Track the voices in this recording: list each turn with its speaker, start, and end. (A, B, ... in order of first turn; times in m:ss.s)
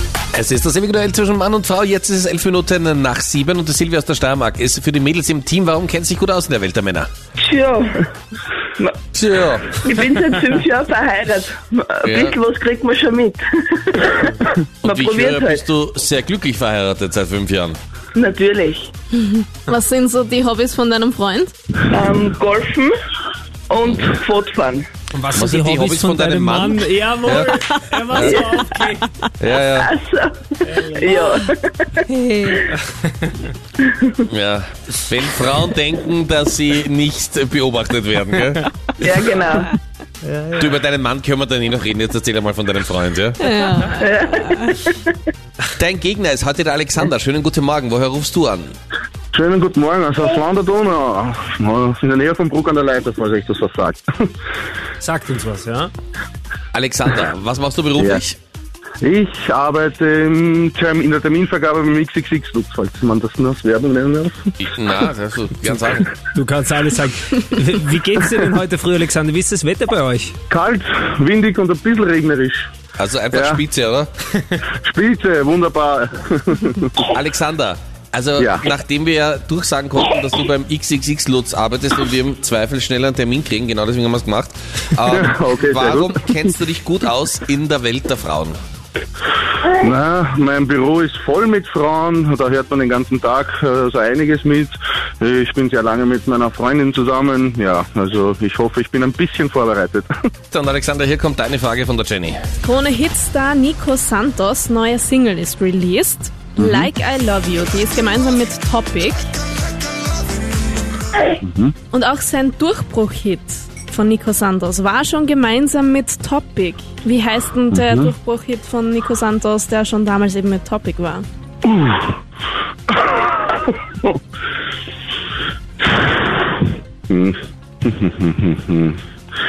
0:00.3-0:07.1 A
0:07.4-0:08.1 B
0:09.1-0:09.8 A
0:09.7-0:15.6 B
0:12.0-0:12.4 A
0:14.8-0:17.8 A
0:18.2-0:18.9 B
0:19.1-0:21.5 C
0:21.9-0:22.9 B
0:23.7-0:24.9 B
0:25.1-0:29.1 D
0:25.2-0:27.5 A
0:28.1-0:28.4 A
0:28.2-0:28.6 B
0:29.4-0:29.9 A
0:29.8-0:31.9 B
0:30.7-0:31.1 D
0:31.2-0:31.5 C
0:32.0-0:32.7 C
0:33.1-0:33.3 D
0:33.8-0:34.2 B
0:34.2-0:39.3 A
0:39.0-0:39.7 B
0:40.2-0:40.8 D
0:40.6-0:43.4 A
0:43.4-0:44.9 C
0:44.0-0:45.2 B
0:45.8-0:48.8 A
0:49.3-0:54.0 E
0:55.0-0:55.9 D
0:56.7-0:58.4 A
0:58.0-0:58.2 E
0:59.0-1:04.5 E
1:04.6-1:06.2 A
1:06.3-1:10.3 D
1:10.5-1:12.7 E
1:13.0-1:14.1 A
1:13.3-1:13.6 E
1:14.7-1:17.1 E
1:17.1-1:28.6 A
1:18.4-1:18.7 E
1:25.1-1:26.5 E
1:29.7-1:40.1 E
1:40.5-1:42.4 A
1:42.6-1:49.3 C
1:46.6-1:46.9 E
1:51.4-1:51.7 E
1:51.9-2:01.3 C
1:57.7-1:58.1 E
2:01.6-2:02.2 E
2:02.9-2:04.1 E
2:07.1-2:09.0 E